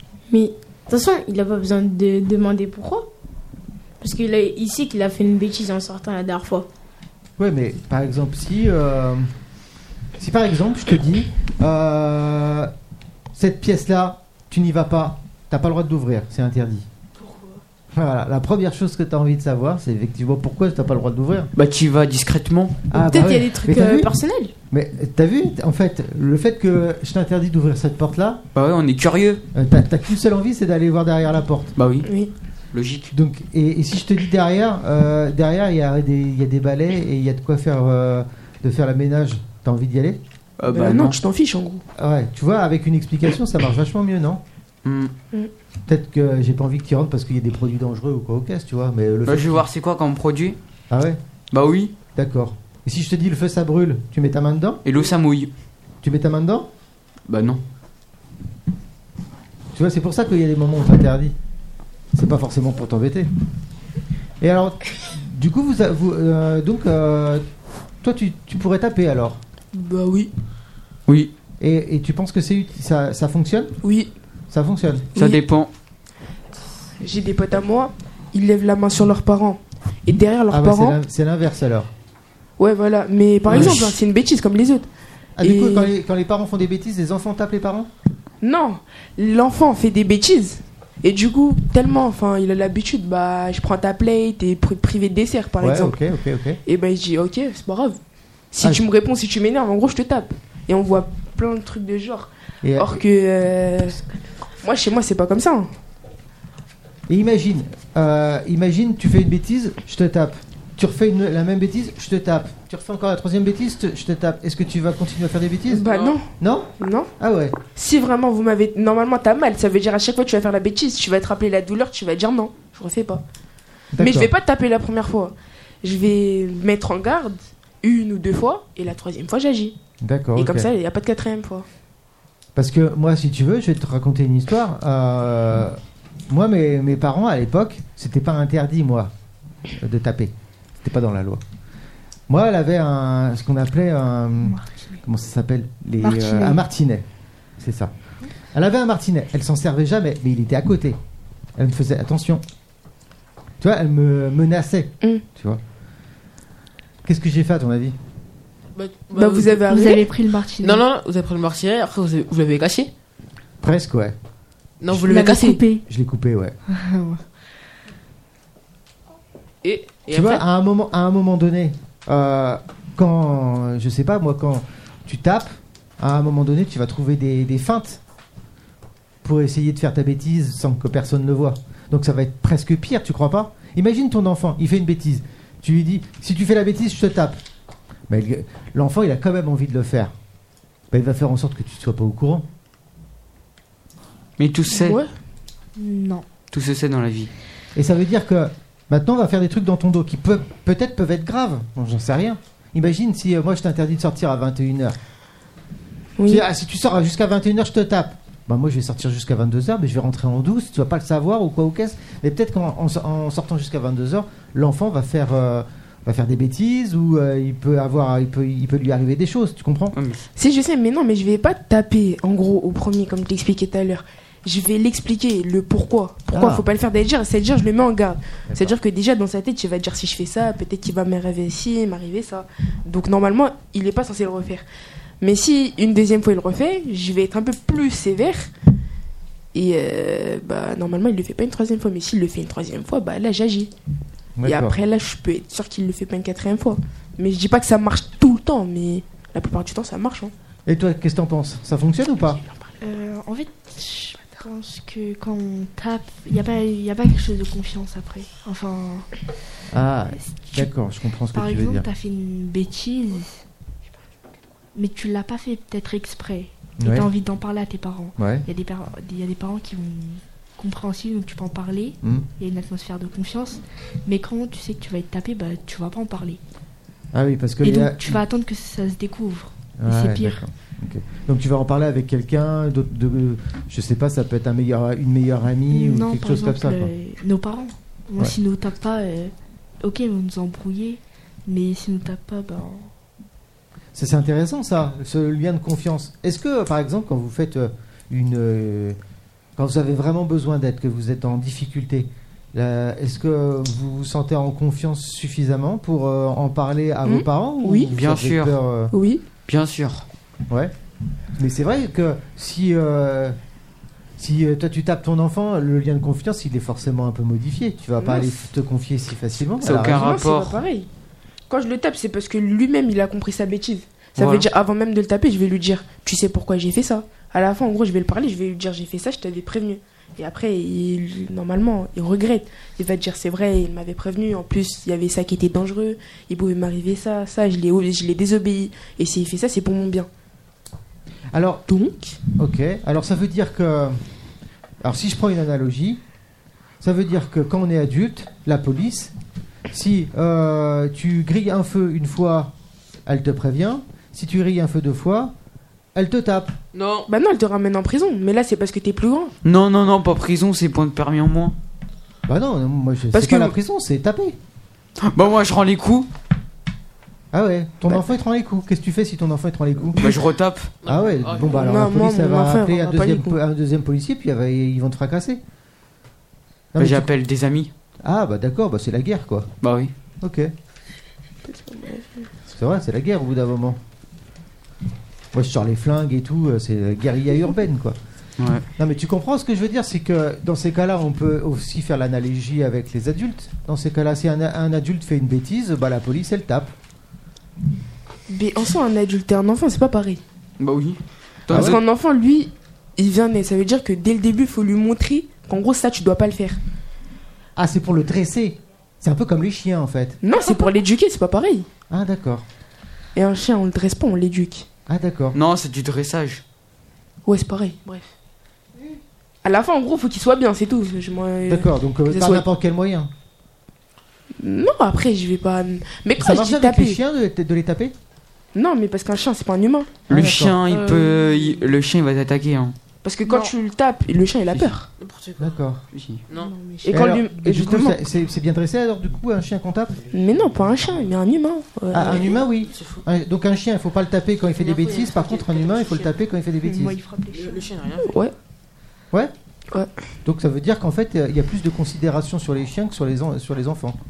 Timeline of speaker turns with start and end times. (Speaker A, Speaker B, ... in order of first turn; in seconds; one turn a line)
Speaker A: 0.3-3.1
Speaker A: 4.0-6.7
Speaker B: 7.4-9.3
Speaker B: 10.2-12.7
Speaker B: 13.3-16.9
Speaker B: 17.9-21.5
Speaker C: 21.6-22.8
Speaker B: 22.9-24.1
Speaker A: 22.9-24.5
Speaker B: 24.7-28.4
Speaker C: 28.5-29.4
Speaker B: 29.5-31.8
Speaker C: 31.8-32.1
Speaker D: 32.0-32.3
Speaker C: 32.7-33.1
Speaker B: 33.1-40.2
Speaker C: 40.6-41.2
Speaker D: 40.7-41.8
Speaker B: 42.0-44.4
Speaker C: 44.8-45.1
Speaker B: 45.9-49.6
Speaker C: 49.3-50.6
Speaker B: 50.9-51.2
Speaker C: 51.5-51.9
Speaker B: 52.1-54.8
Speaker C: 54.8-55.5
Speaker B: 56.0-56.7
Speaker C: 57.3-57.6
Speaker B: 59.7-61.3
Speaker B: 62.1-63.3
Speaker B: 64.4-67.4
Speaker B: 68.0-69.4
Speaker D: 69.7-70.3
Speaker C: 71.1-71.3
Speaker B: 71.6-73.8
Speaker D: 73.8-74.1
Speaker B: 74.5-75.1
Speaker C: 75.1-75.7
Speaker D: 77.0-81.0
Speaker B: 80.5-81.9
Speaker D: 82.6-84.9
Speaker B: 83.5-83.9
Speaker B: 85.4-87.9
Speaker D: 85.4-85.9
Speaker D: 88.4-96.0
Speaker B: 95.6-96.6
Speaker D: 96.7-98.0
Speaker D: 98.5-104.0
Speaker B: 102.6-103.0
Speaker D: 104.6-105.7
Speaker B: 107.1-115.8
Speaker D: 115.7-117.1
Speaker E: 115.8-116.2
Speaker B: 116.4-117.5
Speaker D: 117.7-123.2
Speaker B: 123.9-124.3
Speaker D: 124.0-129.8
Speaker B: 130.0-130.7
Speaker D: 130.3-131.7
Speaker B: 132.5-139.1
Speaker B: 139.7-141.4
Speaker B: 142.3-147.0
Speaker F: 144.4-145.0
Speaker F: 146.0-146.6
Speaker B: 147.6-147.9
Speaker B: 148.5-151.0
Speaker B: 151.6-152.4
Speaker B: 153.6-155.6
Speaker B: 157.0-157.9
Speaker E: 158.7-159.7
Speaker D: 159.1-160.1
Speaker F: 159.6-160.8
Speaker E: 160.6-162.9
Speaker B: 163.6-164.1
Speaker E: 164.8-165.6
Speaker F: 164.9-165.8
Speaker B: 165.8-166.6
Speaker F: 166.7-167.2
Speaker E: 169.6-170.4
Speaker B: 170.1-178.0
Speaker B: 179.2-187.4
Speaker B: 188.1-190.1
Speaker B: 190.9-192.4
Speaker C: 194.4-195.0
Speaker D: 194.7-195.1
Speaker F: 195.8-196.2
Speaker C: 196.5-197.3
Speaker B: 197.7-205.0
Speaker D: 206.2-206.4
Speaker B: 206.3-219.9
Speaker C: 219.9-220.3
Speaker D: 220.3-234.6
Speaker B: 226.3-226.7
Speaker B: 228.5-228.8
Speaker D: 235.2-238.5
Speaker D: 239.5-243.7
Speaker B: 244.4-244.8
Speaker D: 244.4-250.3
Speaker B: 250.7-252.4
Speaker F: 252.8-259.1
Speaker B: 259.7-261.9
Speaker F: 260.1-260.7
Speaker F: 261.3-263.4
Speaker F: 264.7-276.4
Speaker B: 266.8-267.1
Speaker B: 268.2-268.4
Speaker B: 277.1-278.2
Speaker F: 277.6-280.4
Speaker B: 279.8-286.9
Speaker F: 285.7-292.9
Speaker B: 293.9-299.0
Speaker B: 299.6-308.9
Speaker D: 307.0-307.9
Speaker C: 307.9-308.5
Speaker D: 308.9-309.2
Speaker C: 309.4-310.0
Speaker B: 311.4-313.4
Speaker B: 314.2-320.1
Speaker D: 318.0-318.4
Speaker C: 319.6-320.6
Speaker D: 319.8-320.9
Speaker D: 321.5-340.1
Speaker C: 324.2-324.5
Speaker B: 341.3-341.6
Speaker D: 341.7-342.2
Speaker B: 342.4-344.0
Speaker B: 344.8-346.0
Speaker B: 346.8-349.1
Speaker B: 349.7-352.5
Speaker B: 353.1-355.3
Speaker B: 355.9-356.5
Speaker E: 356.7-357.1
Speaker D: 357.1-359.3
Speaker C: 359.4-361.5
Speaker B: 362.3-364.4
Speaker D: 363.1-363.5
Speaker C: 365.0-366.1
Speaker B: 367.3-370.0
Speaker C: 369.9-370.7
Speaker E: 370.8-371.7
Speaker B: 370.8-375.4
Speaker D: 371.6-373.4
Speaker B: 376.7-377.1
Speaker C: 376.8-377.7
Speaker B: 378.0-379.5
Speaker C: 379.6-379.9
Speaker B: 380.2-380.5
Speaker D: 381.4-382.3
Speaker B: 382.5-383.8
Speaker B: 385.3-388.0
Speaker C: 388.4-388.6
Speaker B: 388.8-396.7
Speaker D: 398.3-400.2
Speaker C: 400.6-401.8
Speaker B: 401.5-401.8
Speaker D: 401.5-406.6
Speaker B: 407.6-410.2
Speaker D: 410.2-411.7
Speaker B: 411.9-412.4
Speaker D: 413.1-414.7
Speaker B: 414.9-415.4
Speaker C: 415.3-416.4
Speaker D: 417.2-418.1
Speaker D: 419.4-422.4
Speaker B: 421.5-423.1
Speaker D: 424.4-427.0
Speaker B: 426.2-427.9
Speaker D: 428.5-430.1
Speaker B: 430.1-430.6
Speaker C: 430.1-432.7
Speaker F: 430.7-431.5
Speaker D: 433.0-434.9
Speaker F: 433.3-433.5
Speaker E: 435.0-435.6
Speaker B: 435.4-435.8
Speaker C: 435.9-436.2
Speaker E: 436.3-436.5
Speaker F: 436.3-437.2
Speaker D: 436.8-438.0
Speaker B: 436.9-440.1
Speaker D: 440.1-442.4
Speaker B: 441.9-446.9
Speaker E: 442.7-443.0
Speaker E: 444.5-446.1
Speaker F: 446.6-447.7
Speaker E: 447.3-448.2
Speaker D: 448.1-448.3
Speaker B: 450.2-454.0